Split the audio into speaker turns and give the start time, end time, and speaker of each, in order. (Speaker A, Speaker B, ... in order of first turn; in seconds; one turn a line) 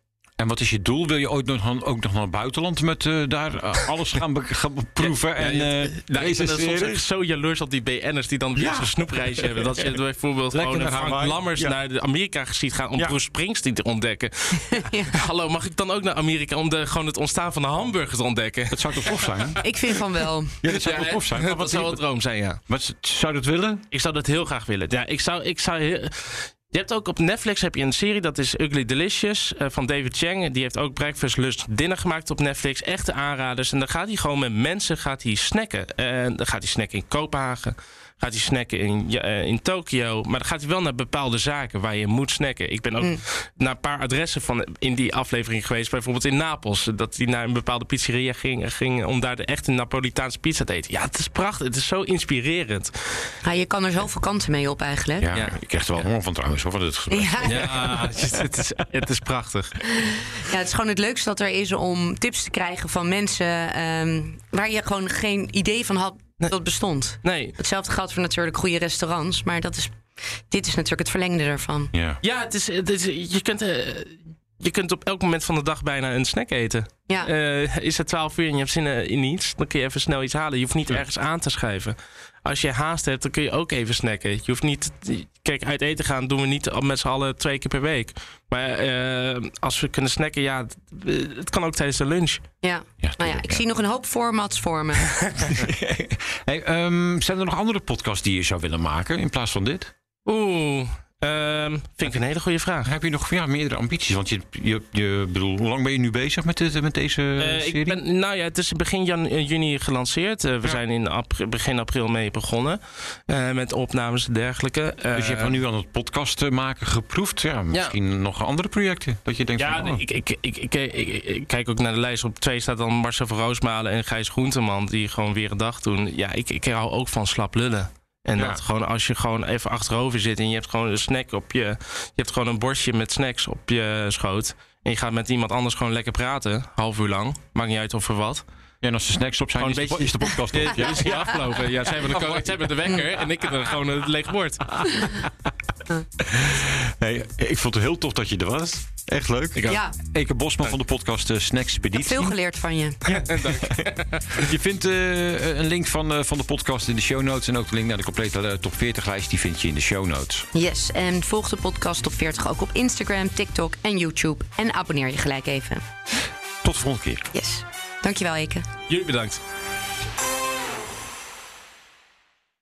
Speaker A: 0.4-7.0
Speaker B: 5.0-19.6
Speaker A: 8.6-9.9
Speaker A: 10.5-11.8
Speaker C: 14.7-15.2
Speaker A: 18.7-19.6
Speaker C: 19.6-20.6
Speaker A: 20.6-22.0
Speaker B: 20.7-22.6
Speaker A: 22.7-23.8
Speaker B: 23.9-53.3
Speaker C: 53.4-55.3
Speaker A: 55.2-58.5
Speaker C: 57.1-57.9
Speaker B: 57.5-59.8
Speaker C: 60.0-71.9
Speaker B: 67.2-67.6
Speaker A: 71.9-72.2
Speaker B: 72.2-92.4
Speaker C: 92.6-95.1
Speaker A: 93.0-93.6
Speaker A: 95.4-99.9
Speaker B: 100.3-102.9
Speaker A: 102.8-108.0
Speaker B: 107.4-115.6
Speaker A: 115.1-120.0
Speaker B: 119.6-138.4
Speaker A: 138.8-141.6
Speaker B: 139.6-145.3
Speaker A: 146.3-152.4
Speaker B: 149.6-149.8
Speaker C: 149.7-149.9
Speaker C: 152.0-153.0
Speaker A: 153.1-160.5
Speaker B: 153.1-154.5
Speaker C: 160.5-165.8
Speaker A: 166.6-167.2
Speaker C: 167.3-168.7
Speaker B: 168.9-169.4